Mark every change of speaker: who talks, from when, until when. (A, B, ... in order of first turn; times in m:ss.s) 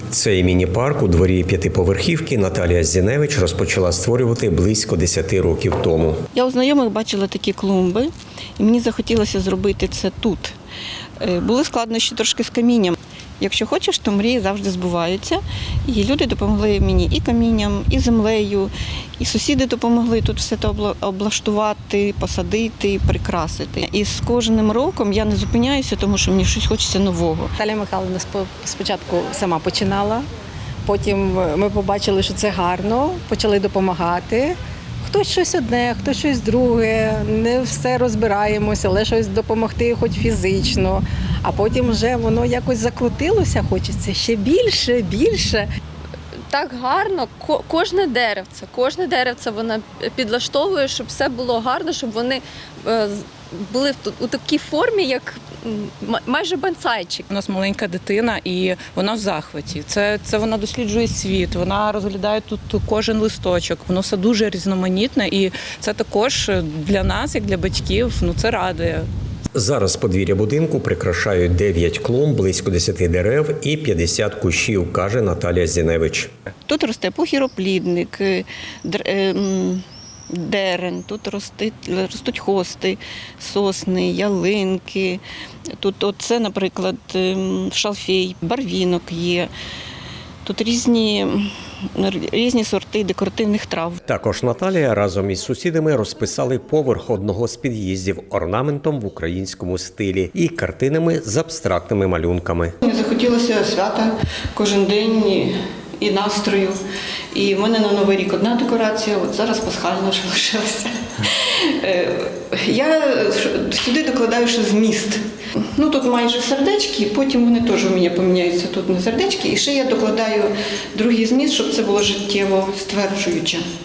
0:00.1-0:06.2 A
0:06.3-0:10.6 B
0:11.2-0:27.5 B
0:27.6-0:30.3 C
0:30.8-0:45.7 C
0:46.5-0:57.2 D
0:57.3-1:09.1 E
1:09.5-1:16.3 A
1:16.7-1:25.2 B
1:25.8-1:29.5 B
1:30.4-1:34.0 B
1:34.1-1:42.7 A
1:42.8-1:46.8 B
1:47.3-2:03.6 B